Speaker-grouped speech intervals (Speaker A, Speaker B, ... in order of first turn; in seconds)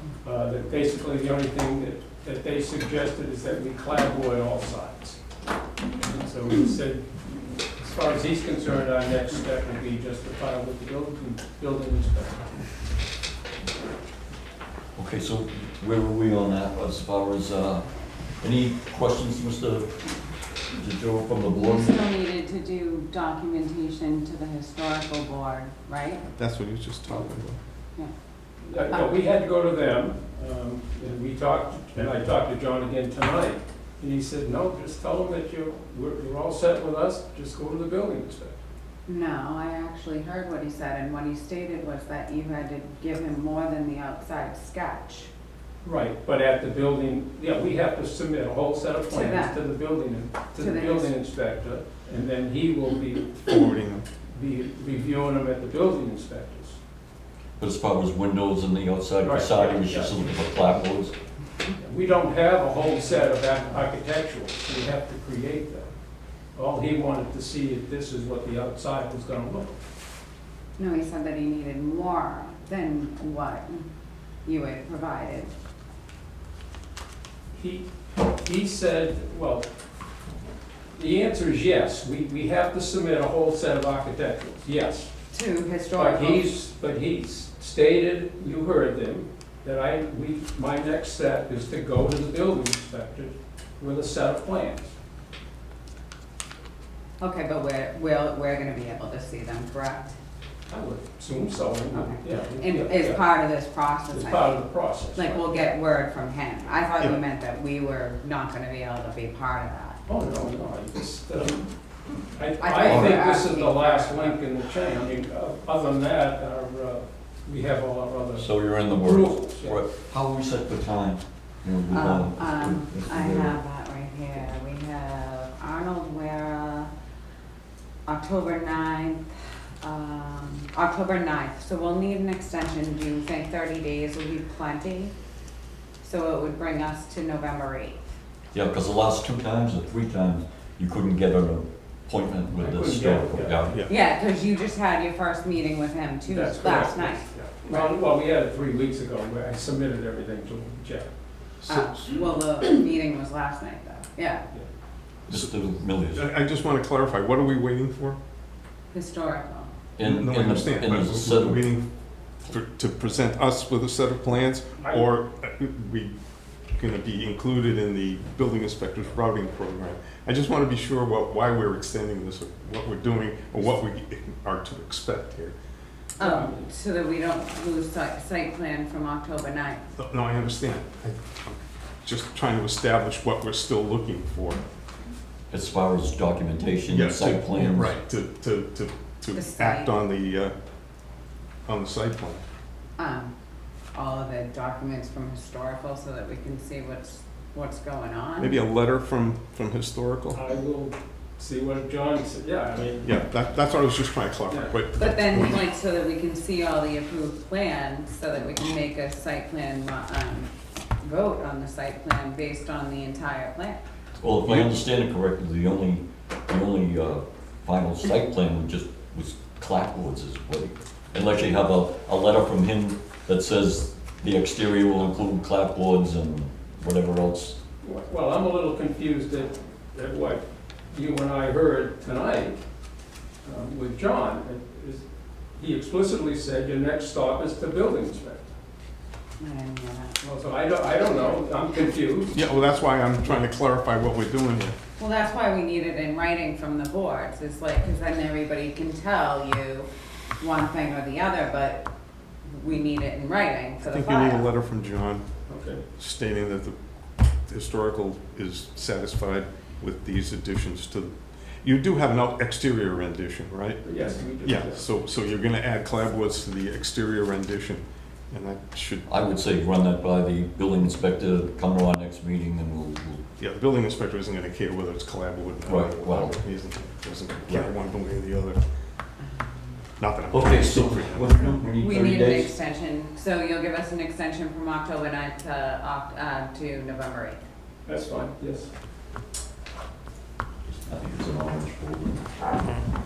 Speaker A: 0.2-5.2, 5.9-7.1, 7.8-12.4, 28.6-38.6, 45.8-53.4, 54.3-56.8, 59.2-60.4, 61.8-65.9, 66.5-69.8, 77.5-79.7, 81.0-85.1, 85.9-94.9, 100.7-103.2, 104.1-105.5, 110.1-111.7, 112.3-119.8, 142.6-143.6, 146.2-151.1, 176.2-176.7, 200.3-203.1, 204.5-204.7, 227.8-232.6, 233.4-235.0, 235.6-238.5, 240.2-242.5, 255.5-255.8, 263.8-264.8, 287.9-288.7
Speaker B: 14.9-17.9, 18.4-20.0, 20.7-22.0, 57.6-61.1, 112.8-113.2, 118.3-123.6, 138.5-143.8, 155.3-156.2, 159.9-161.7, 185.5-187.9, 214.2-227.6, 269.1-273.2, 275.6-276.4, 280.3-282.5, 290.7-292.3
Speaker C: 21.5-26.2, 39.1-45.3, 49.1-49.6, 50.6-51.1, 70.8-73.8, 74.4-75.5, 85.3-86.5, 97.2-100.1, 101.9-110.0, 112.6-114.4, 121.9-126.9, 128.1-135.1, 136.0-138.1, 143.9-147.9, 151.7-154.4, 158.9-159.7, 176.2-179.8, 189.3-189.9, 193.0-193.3, 193.9-198.5, 205.0-213.8, 239.4-240.2, 241.0-241.4, 245.0-249.9, 250.4-251.9, 252.4-254.4, 279.2-279.8, 281.8-287.4
Speaker D: 26.3-27.6, 53.5-54.0, 151.6-152.2, 155.3-158.2, 160.0-161.9, 162.4-166.1, 166.8-175.6, 179.9-184.6, 186.9-190.5, 191.7-192.4, 198.4-200.4, 203.0-205.6, 214.4-214.8, 242.3-244.7, 253.9-255.3, 255.9-256.8, 257.5-263.9, 264.4-269.1, 273.4-278.6, 280.0-281.6